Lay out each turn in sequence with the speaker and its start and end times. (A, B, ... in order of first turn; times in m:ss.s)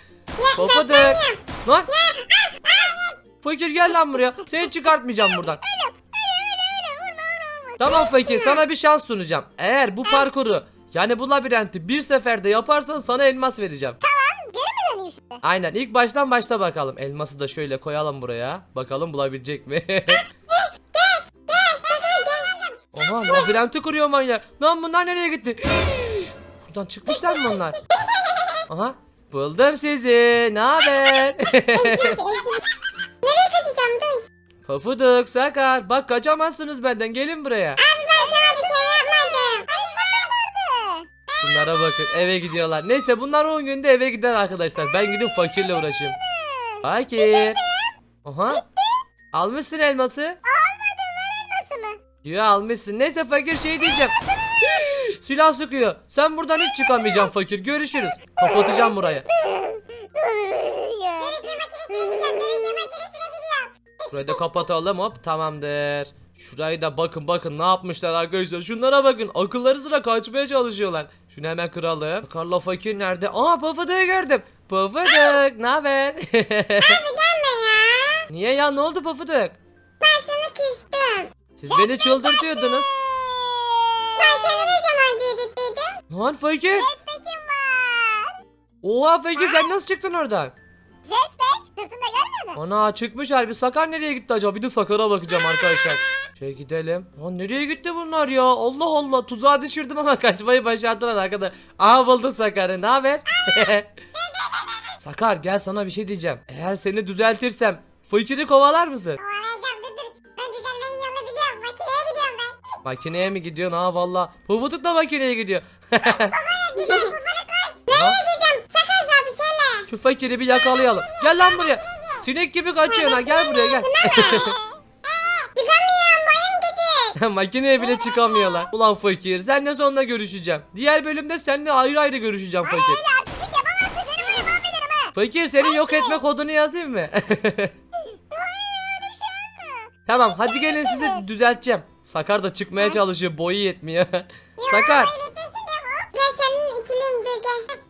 0:00.4-0:03.0 A
0:00.6-0:01.9 B
0:03.4-0:05.6 B
0:05.3-0:08.6 C
0:07.8-0:14.0 B
0:14.0-0:15.4 C
0:15.4-0:20.3 B
0:20.5-0:22.6 A
0:22.9-0:27.8 B
0:27.1-0:28.6 A
0:28.7-0:32.2 B
0:31.7-0:32.6 A
0:33.2-0:34.3 A
0:34.7-0:37.8 B
0:37.8-0:39.7 A
0:38.2-0:38.5 C
0:39.6-0:41.4 C
0:41.4-0:46.2 B
0:44.9-0:47.9 C
0:46.8-0:47.6 B
0:48.2-0:48.6 B
0:48.5-0:49.0 C
0:49.3-0:50.4 B
0:50.4-0:52.0 C
0:52.2-0:54.1 B
0:54.0-0:54.8 C
0:54.7-0:59.2 B
0:56.8-0:57.3 C
0:58.4-1:03.0 C
1:01.2-1:03.7 A
1:04.1-1:17.0 B
1:16.8-1:18.2 A
1:18.3-1:19.6 B
1:20.0-1:21.3 A
1:21.6-1:22.9 B
1:21.7-1:24.8 C
1:24.2-1:26.0 A
1:26.1-1:26.9 B
1:26.7-1:28.4 C
1:28.8-1:30.5 B
1:31.0-1:32.6 C
1:32.5-1:43.9 B
1:44.3-1:44.7 A
1:45.0-1:49.2 B
1:49.2-1:52.6 A
1:52.8-1:56.4 B
1:56.1-1:57.8 C
1:56.7-1:57.2 A
1:57.9-1:59.9 A
1:57.9-1:58.2 B
1:59.9-2:04.5 B
2:00.6-2:02.3 A
2:02.8-2:04.5 A
2:04.2-2:04.8 C
2:05.1-2:07.2 A
2:07.2-2:13.0 B
2:12.6-2:16.2 C
2:15.1-2:17.7 B
2:18.0-2:21.3 C
2:20.1-2:25.1 B
2:24.6-2:25.3 A
2:24.7-2:26.1 C
2:26.1-2:27.7 A